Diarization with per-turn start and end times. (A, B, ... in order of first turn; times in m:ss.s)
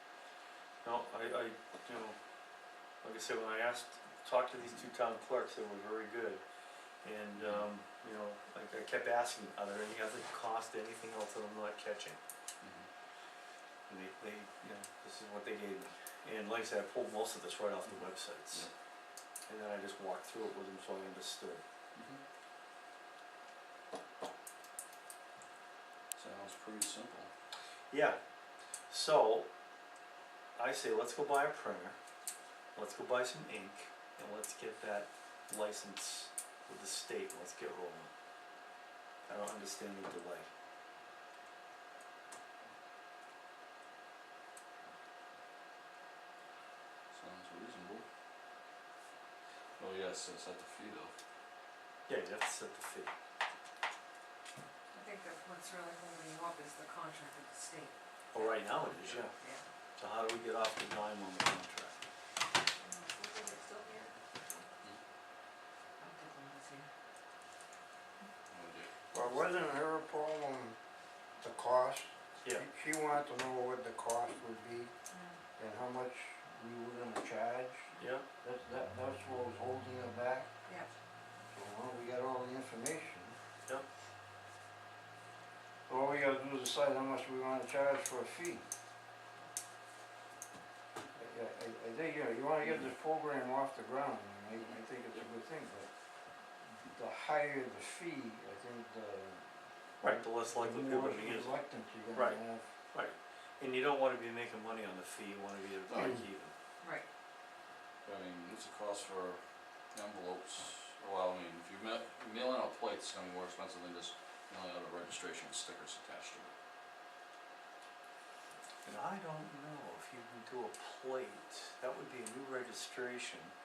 0:00.8-0:02.2 A
0:03.0-0:06.4 A
0:07.0-0:12.2 A
0:07.4-0:07.6 B
0:12.6-0:12.9 B
0:13.9-0:18.7 A
0:17.8-0:18.7 B
0:19.5-0:21.6 A
0:21.9-0:22.2 B
0:26.1-0:27.3 B
0:27.9-0:28.2 A
0:28.9-0:29.5 A
0:30.6-0:32.0 A
0:32.7-0:38.1 A
0:39.3-0:40.5 A
0:47.1-0:48.0 B
0:49.8-0:51.1 B
0:52.1-0:53.1 A
0:54.9-0:59.6 C
0:58.3-0:59.3 A
1:00.0-1:02.0 A
1:02.8-1:04.6 C
1:06.0-1:06.9 C
1:08.5-1:08.9 B
1:09.1-1:10.8 D
1:11.4-1:14.9 D
1:15.1-1:15.4 C
1:15.6-1:20.5 D
1:18.0-1:18.2 A
1:21.5-1:23.4 D
1:25.9-1:28.6 D
1:31.1-1:35.9 D
1:34.6-1:35.2 B
1:36.7-1:39.5 D
1:40.0-1:41.6 A
1:40.1-1:42.7 D
1:42.1-1:42.4 A
1:42.9-1:46.5 A
1:45.9-1:46.2 B
1:48.0-1:49.4 B
1:49.9-1:56.5 B
1:58.8-2:03.5 A